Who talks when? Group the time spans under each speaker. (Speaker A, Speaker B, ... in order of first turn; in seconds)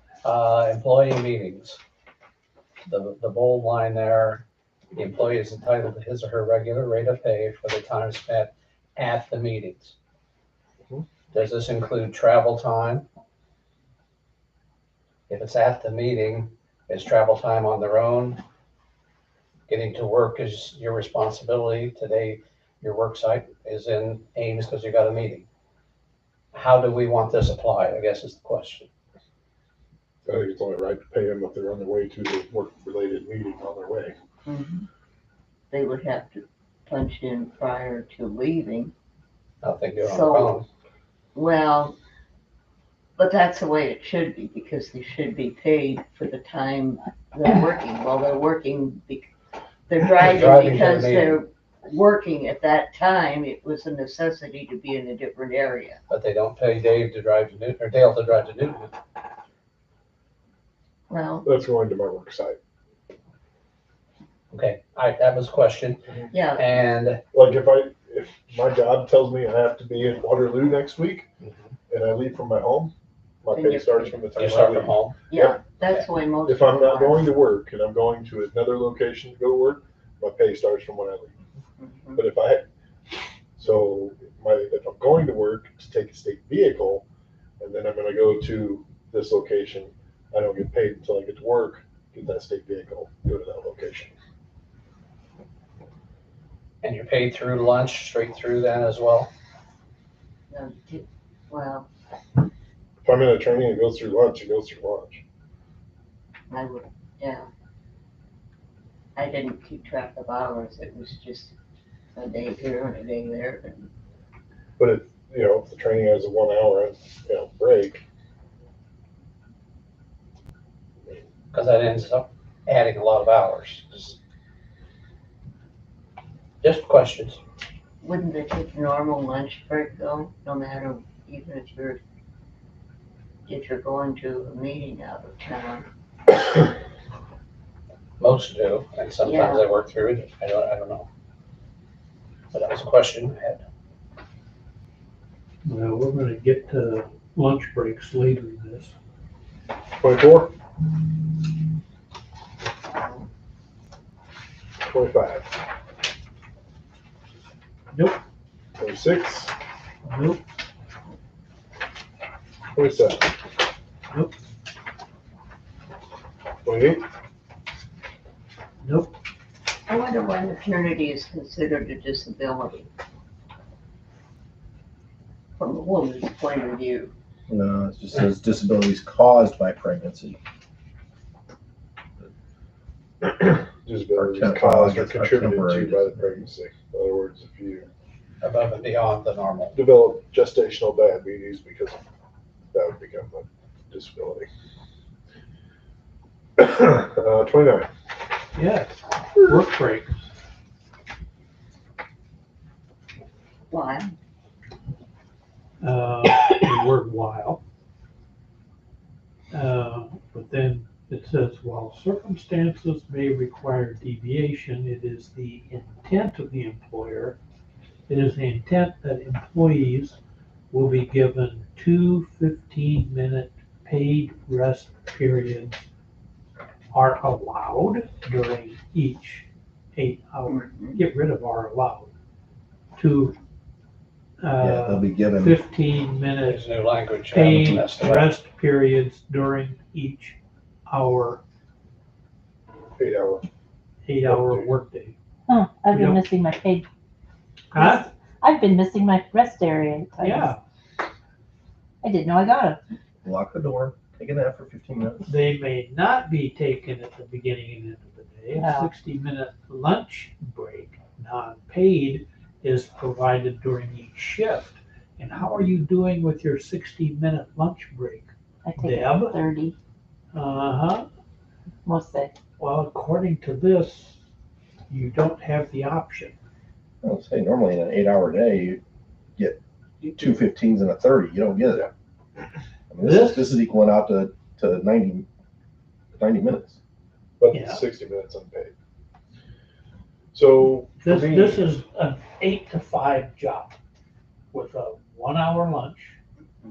Speaker A: 0.2-1.8, 2.9-10.0, 11.3-13.1, 15.3-18.4, 19.7-25.5, 26.5-28.9, 39.6-40.7, 50.2-51.4, 56.1-58.9, 64.5-66.0, 66.5-67.2, 74.4-75.2, 96.8-99.3, 121.5-124.2, 126.6-127.4, 138.2-141.1, 142.5-143.6, 188.4-189.8, 236.4-238.3
Speaker B: 30.3-34.2, 61.5-62.6, 67.3-71.3, 71.9-75.6, 76.5-81.4, 82.2-82.7, 83.6-87.1, 87.6-94.1, 103.0-105.2, 114.8-118.0, 150.0-150.6, 154.8-155.5, 158.8-159.5, 162.7-163.3, 166.7-167.1, 183.2-187.9, 189.7-192.0, 192.7-194.5, 196.6-197.9, 243.0-243.5, 244.2-244.7, 287.4-288.7, 290.3-291.7
Speaker C: 34.5-34.9, 35.7-38.9, 40.0-40.5, 41.4-42.0, 43.2-49.3, 49.9-56.0, 61.1-61.5, 66.3-66.7, 73.5-74.2, 75.3-77.3, 81.8-82.2, 100.5-101.9, 106.5-107.5, 109.2-111.5, 112.2-113.9, 128.0-132.0, 133.5-135.9, 139.2-139.7, 169.9-172.9, 175.6-177.1, 203.7-204.1, 230.5-231.0
Speaker D: 145.7-148.9, 157.9-158.2, 160.1-160.4, 168.8-169.1, 198.6-200.3, 205.8-207.6, 209.5-217.4, 218.1-220.2, 220.7-225.8, 226.9-232.1, 233.0-233.4, 234.4-236.7, 237.3-241.4, 244.1-245.2, 245.9-246.2, 247.7-248.1, 250.2-250.6, 255.3-269.4, 270.3-271.1, 272.6-274.1, 274.9-276.3, 283.0-283.5, 287.5-287.9, 291.0-293.8, 294.5-296.2
Speaker E: 177.5-180.4, 184.2-186.2, 234.6-235.6, 253.2-255.3, 277.0-278.8, 279.4-281.9, 282.9-285.3, 286.1-286.8
Speaker F: 245.5-246.9, 247.7-250.5, 252.0-252.8, 258.5-258.9, 268.6-269.8, 271.9-272.3